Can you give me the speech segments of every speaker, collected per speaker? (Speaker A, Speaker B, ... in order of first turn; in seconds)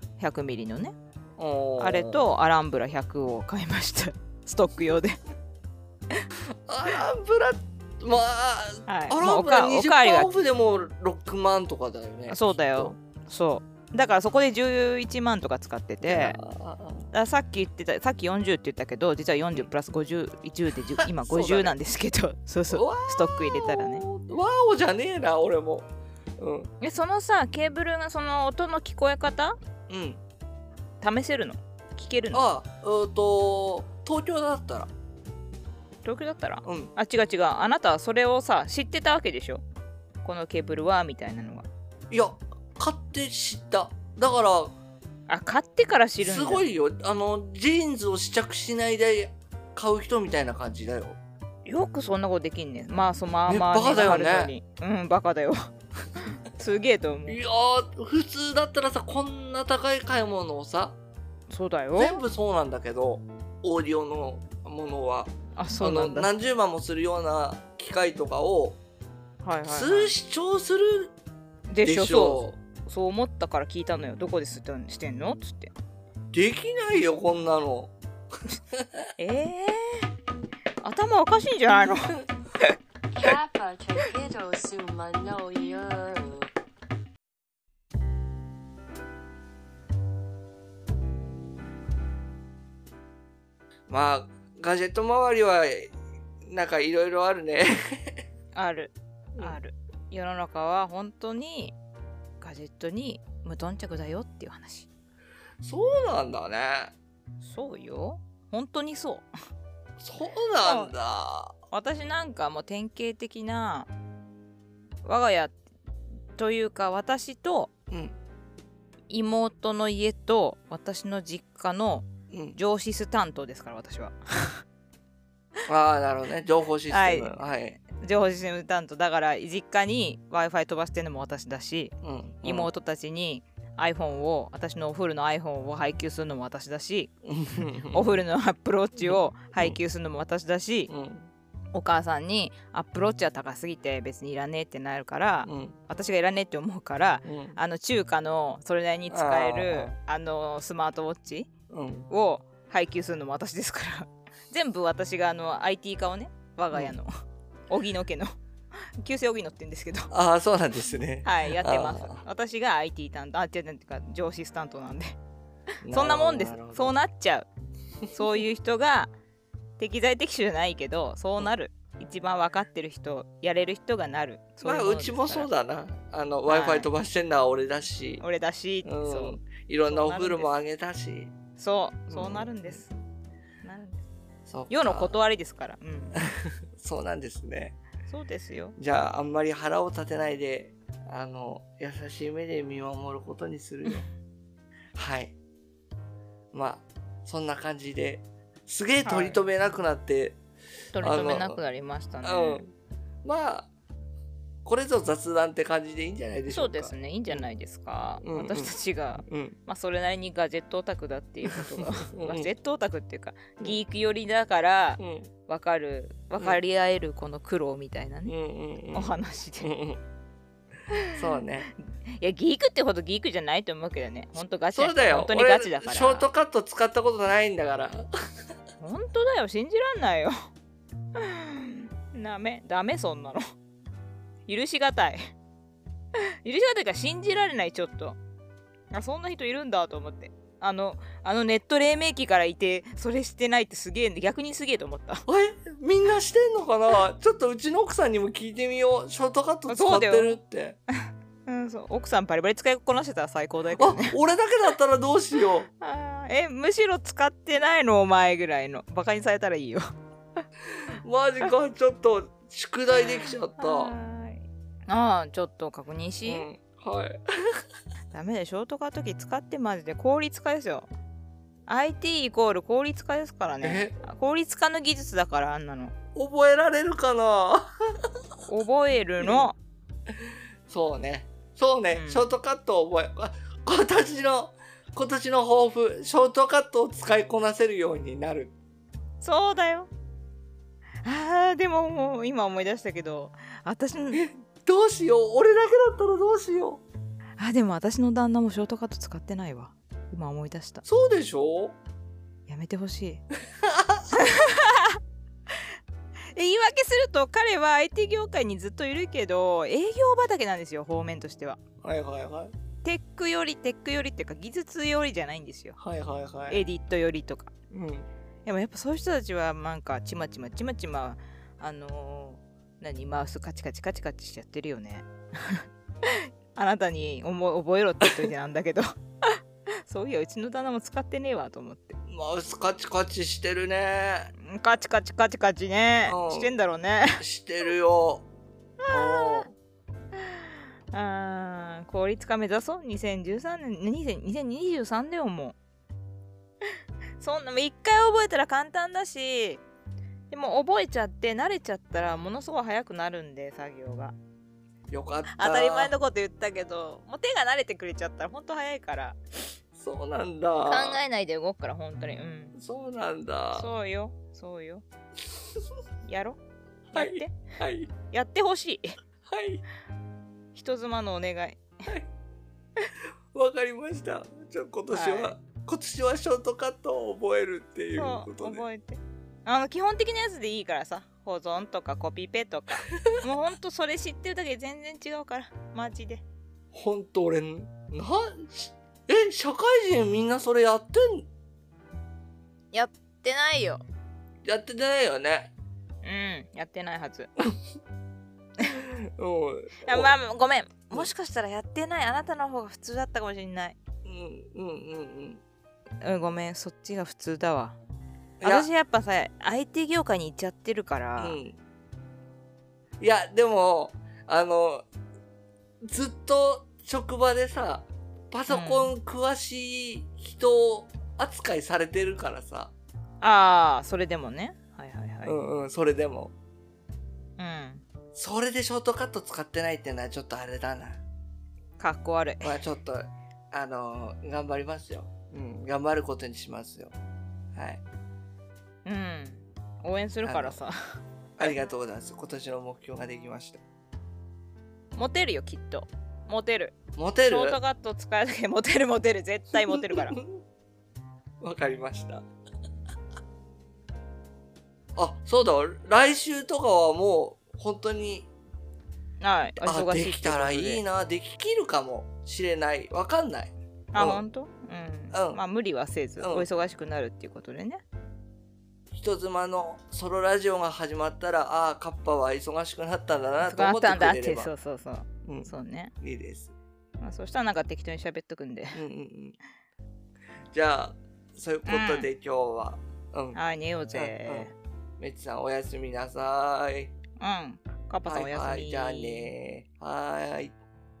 Speaker A: 0.2-0.9, 1.8-5.2, 8.9-10.4, 12.3-16.4, 17.1-24.1, 26.8-29.6, 31.0-32.4, 36.0-39.6, 40.2-41.7, 45.3-46.6, 51.6-57.4, 61.5-62.2, 65.5-66.3, 69.4-70.1, 71.7-75.7, 79.2-80.1, 80.8-82.7, 98.5-101.7, 102.4-104.9, 107.4-109.3, 110.6-110.9, 111.7-113.9, 115.0-115.5, 116.3-117.7, 119.1-124.6, 126.9-140.9, 141.7-151.5, 152.1-157.1, 157.7-158.3, 159.0-160.1, 161.2-165.2, 165.9-167.5, 168.1-169.1, 169.8-175.5, 176.5-176.9, 178.2-180.5, 181.6-182.9, 183.6-184.0, 184.7-186.2, 188.1-188.8, 199.0-199.4, 200.9-202.6, 206.5-218.3, 218.9-219.7, 220.9-221.4, 222.0-226.3, 228.8-230.4, 231.1-233.4, 234.5-235.3, 236.1-238.2, 238.9-245.2, 249.7-250.4, 251.4-254.2, 255.8-259.9, 263.0-266.5, 268.1-270.9, 271.7-275.9, 278.4-279.6, 281.9-282.3, 289.2-289.9, 291.0-294.2, 297.4-300.8, 302.5-303.2, 304.1-305.6, 306.3-311.6, 312.8-315.8, 316.5-317.5, 318.4-332.0, 334.4-337.2, 338.8-339.4, 340.1-345.6, 346.6-349.6, 350.3-354.1, 355.3-359.2, 360.6-362.5, 363.5-364.8, 366.0-366.4, 366.9-367.4, 368.0-368.9, 370.5-371.9, 374.9-375.4, 377.9-386.2, 392.7-393.8, 396.0-397.3, 399.8-403.8, 406.0-407.8, 408.4-411.4, 418.5-418.9, 423.2-425.3, 427.4-427.8, 431.8-432.6, 438.8-441.5, 444.9-450.2, 459.2-460.8, 463.9-467.8, 473.4-475.9, 477.0-478.8, 481.7-482.1, 483.3-484.5, 487.2-489.3
Speaker B: 1.4-2.3, 6.5-12.9, 16.0-17.1, 21.0-21.7, 22.7-25.9, 26.4-26.7, 29.9-30.2, 32.3-34.9, 36.6-36.9, 42.1-44.7, 46.2-51.2, 53.5-54.5, 57.3-61.0, 61.9-68.8, 69.7-71.1, 71.8-72.6, 76.3-77.9, 78.5-79.1, 93.9-95.9, 96.5-98.2, 105.6-106.9, 110.0-111.5, 117.9-118.1, 122.3-122.6, 125.7-127.8, 132.0-132.7, 137.2-138.1, 139.1-139.8, 140.9-141.3, 145.4-145.8, 147.2-147.6, 149.1-149.9, 151.7-152.1, 156.7-157.0, 160.1-162.2, 165.8-166.9, 174.6-178.2, 178.8-181.3, 182.1-182.8, 184.5-185.1, 186.2-187.8, 188.8-194.0, 194.9-195.3, 196.5-200.4, 201.0-201.6, 202.2-202.7, 203.2-203.7, 204.6-207.4, 208.2-209.6, 211.5-212.5, 215.0-215.3, 218.2-219.1, 219.6-220.0, 221.1-221.7, 224.7-228.0, 245.2-250.8, 253.8-255.7, 260.7-263.9, 266.2-267.6, 273.6-274.0, 276.1-278.0, 279.2-279.5, 280.2-288.5, 294.1-296.8, 300.8-301.7, 303.5-304.2, 311.8-312.5, 315.8-316.6, 317.7-318.1, 332.1-334.3, 336.1-336.5, 337.2-338.2, 338.9-339.5, 354.9-355.9, 359.8-361.0, 362.5-363.7, 366.9-367.9, 369.3-369.6, 373.3-378.6, 386.7-391.3, 394.4-395.5, 398.7-400.1, 404.0-405.4, 408.4-408.7, 411.2-411.6, 413.0-414.9, 415.8-422.7, 425.2-426.3, 428.1-431.0, 432.4-436.9, 437.5-437.8, 440.2-440.6, 441.4-443.6, 447.0-447.6, 449.6-450.4, 451.4-452.2, 455.0-458.3, 459.6-464.2, 465.1-465.4, 466.2-466.4, 468.9-474.5, 475.2-476.5, 478.7-479.4, 480.5-483.4, 483.9-484.5, 485.0-486.9, 488.1-490.5
Speaker C: 83.1-86.5